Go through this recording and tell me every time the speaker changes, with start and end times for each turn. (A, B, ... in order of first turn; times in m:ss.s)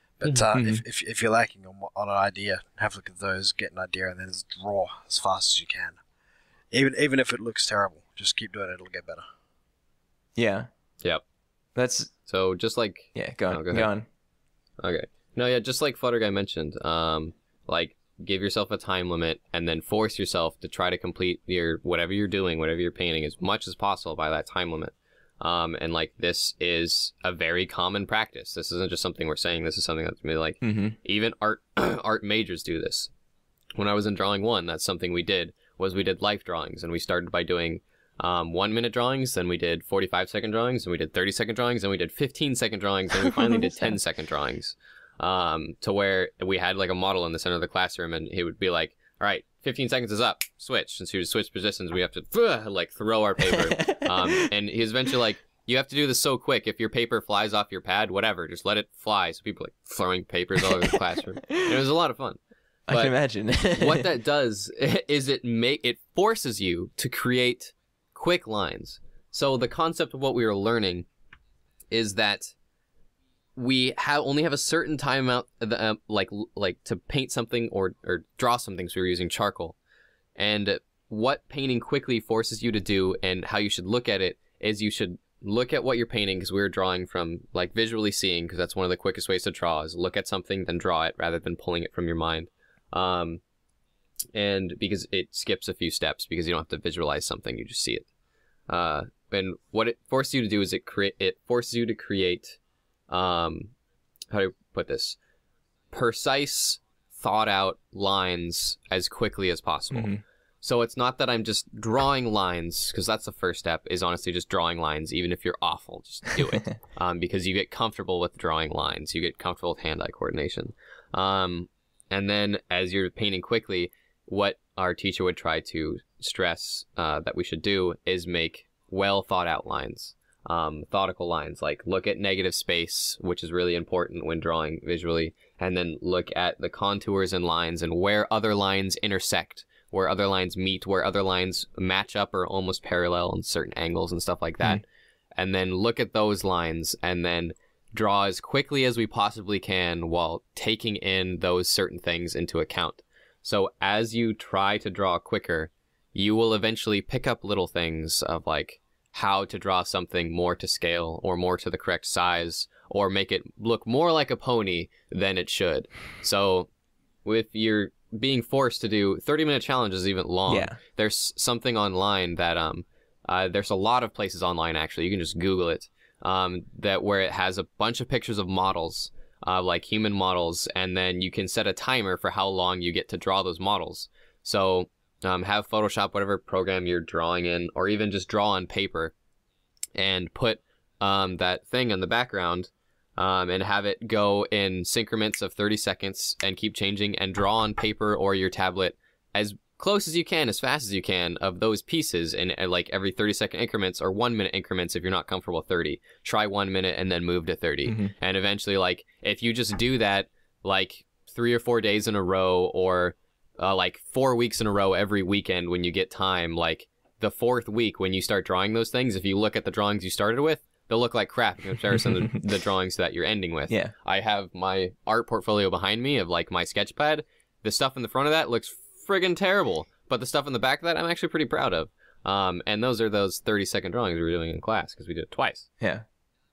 0:00.2-0:06.0 A
0:00.5-0:00.8 B
0:06.7-0:09.2 A
0:10.4-0:10.7 B
0:11.7-0:12.1 B
0:12.3-0:13.9 C
0:13.1-0:14.1 B
0:14.8-0:33.1 C
0:30.6-0:31.0 B
0:33.8-1:02.4 C
0:43.2-0:44.0 B
0:53.5-0:54.5 B
1:02.9-1:04.1 B
1:03.7-1:11.0 C
1:11.9-1:12.5 C
1:13.6-1:19.8 C
1:20.4-1:33.4 C
1:34.3-1:38.1 C
1:38.7-1:42.6 C
1:43.1-1:43.7 C
1:44.3-1:45.2 C
1:45.9-2:24.8 C
1:49.9-1:50.2 B
2:25.4-2:46.7 C
2:47.2-3:09.1 C
2:50.5-2:50.8 B
3:10.0-3:55.7 C
3:27.8-3:28.1 B
3:55.8-3:56.0 B